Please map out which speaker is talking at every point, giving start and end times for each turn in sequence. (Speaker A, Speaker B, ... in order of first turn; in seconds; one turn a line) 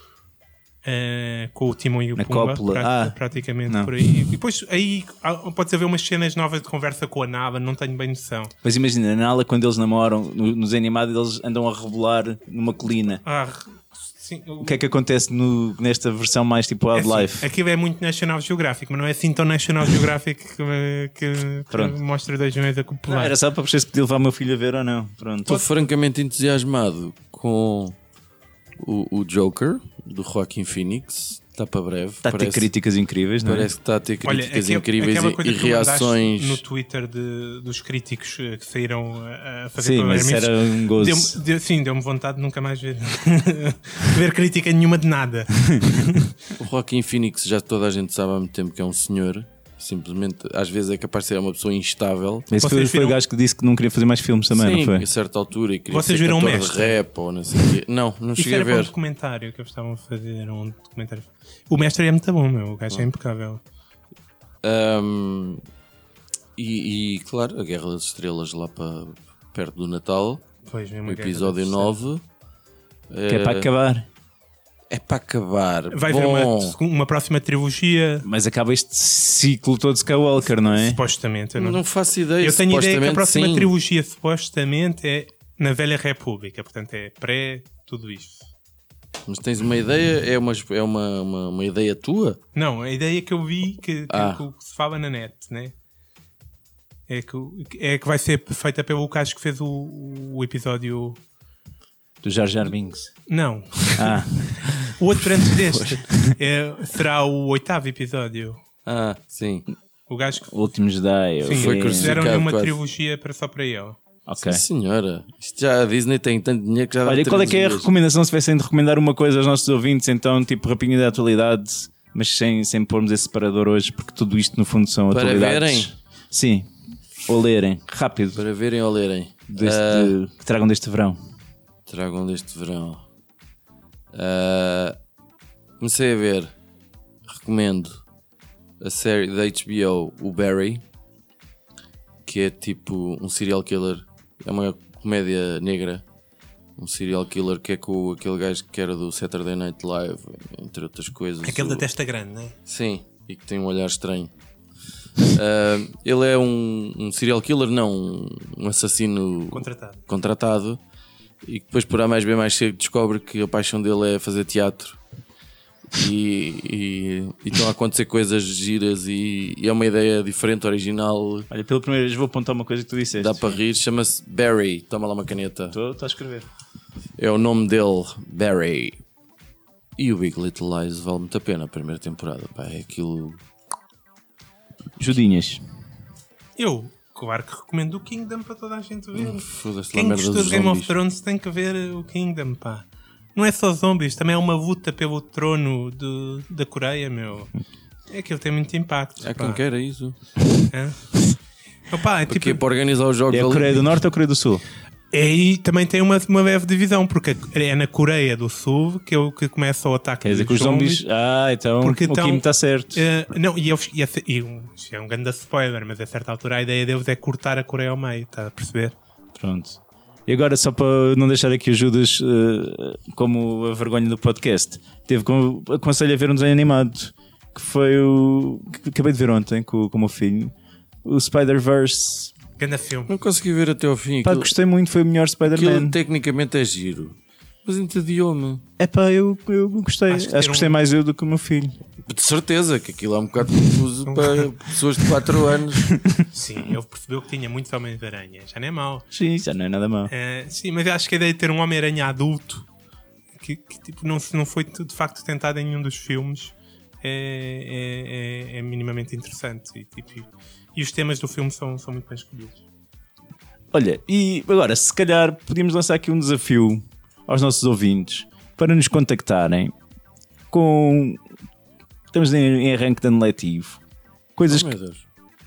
Speaker A: 0.8-8.5
Speaker B: 2.1-4.0
Speaker B: 8.6-13.2
Speaker A: 13.2-14.8
Speaker B: 14.6-17.5
Speaker A: 16.9-23.4
Speaker B: 21.7-22.0
Speaker B: 23.1-25.6
Speaker C: 25.4-28.0
Speaker C: 28.8-32.7
Speaker B: 32.2-33.7
Speaker C: 33.4-36.6
Speaker A: 34.2-46.4
Speaker B: 39.8-41.4
Speaker C: 46.6-52.5
Speaker B: 52.5-55.1
Speaker A: 52.6-53.2
Speaker C: 54.5-58.9
Speaker A: 55.9-57.0
Speaker A: 58.4-63.6
Speaker C: 64.6-65.6
Speaker C: 66.6-70.5
Speaker A: 70.6-71.9
Speaker C: 71.1-72.2
Speaker C: 73.1-73.7
Speaker B: 73.3-74.1
Speaker C: 74.9-76.8
Speaker A: 75.9-78.2
Speaker B: 78.2-81.0
Speaker A: 80.6-81.8
Speaker C: 81.6-83.7
Speaker A: 82.4-88.5
Speaker C: 89.3-92.4
Speaker A: 92.5-95.7
Speaker C: 94.1-94.4
Speaker A: 97.1-101.2
Speaker B: 102.2-103.1
Speaker A: 103.3-108.6
Speaker B: 103.9-104.9
Speaker B: 105.7-106.3
Speaker C: 108.8-109.7
Speaker A: 110.1-110.5
Speaker B: 110.4-112.3
Speaker A: 111.4-114.0
Speaker C: 111.5-112.8
Speaker B: 114.3-114.6
Speaker C: 114.4-117.9
Speaker B: 117.0-126.7
Speaker C: 125.1-125.9
Speaker B: 127.2-128.4
Speaker C: 128.4-130.2
Speaker B: 129.5-131.2
Speaker C: 131.9-133.0
Speaker C: 134.1-135.0
Speaker C: 135.8-136.5
Speaker C: 137.3-137.9
Speaker C: 138.8-140.8
Speaker C: 142.2-146.0
Speaker C: 146.8-151.9
Speaker A: 151.4-152.5
Speaker C: 152.7-154.3
Speaker C: 155.2-160.8
Speaker A: 159.5-160.0
Speaker C: 161.4-165.0
Speaker C: 165.9-171.5
Speaker B: 171.5-173.6
Speaker C: 173.2-175.8
Speaker B: 175.7-176.5
Speaker C: 177.2-179.0
Speaker C: 180.0-183.4
Speaker B: 185.0-185.6
Speaker A: 186.6-197.5
Speaker C: 189.1-190.9
Speaker A: 198.1-199.6
Speaker C: 199.2-200.1
Speaker A: 200.7-201.2
Speaker A: 201.9-202.6
Speaker C: 202.3-203.9
Speaker B: 203.3-204.6
Speaker A: 205.1-211.0
Speaker B: 210.2-213.0
Speaker A: 211.8-218.9
Speaker B: 219.3-230.5
Speaker B: 231.0-232.3
Speaker A: 232.6-233.1
Speaker C: 233.1-234.5
Speaker B: 234.2-235.9
Speaker C: 235.4-238.6
Speaker B: 238.8-241.8
Speaker A: 240.1-240.8
Speaker C: 242.1-245.9
Speaker A: 244.1-244.4
Speaker B: 245.9-246.2
Speaker A: 246.3-249.1
Speaker B: 249.1-250.1
Speaker A: 250.1-252.7
Speaker A: 253.3-262.6
Speaker B: 263.7-269.7
Speaker B: 270.5-271.2
Speaker B: 272.1-273.8
Speaker B: 274.4-274.7
Speaker C: 274.5-275.0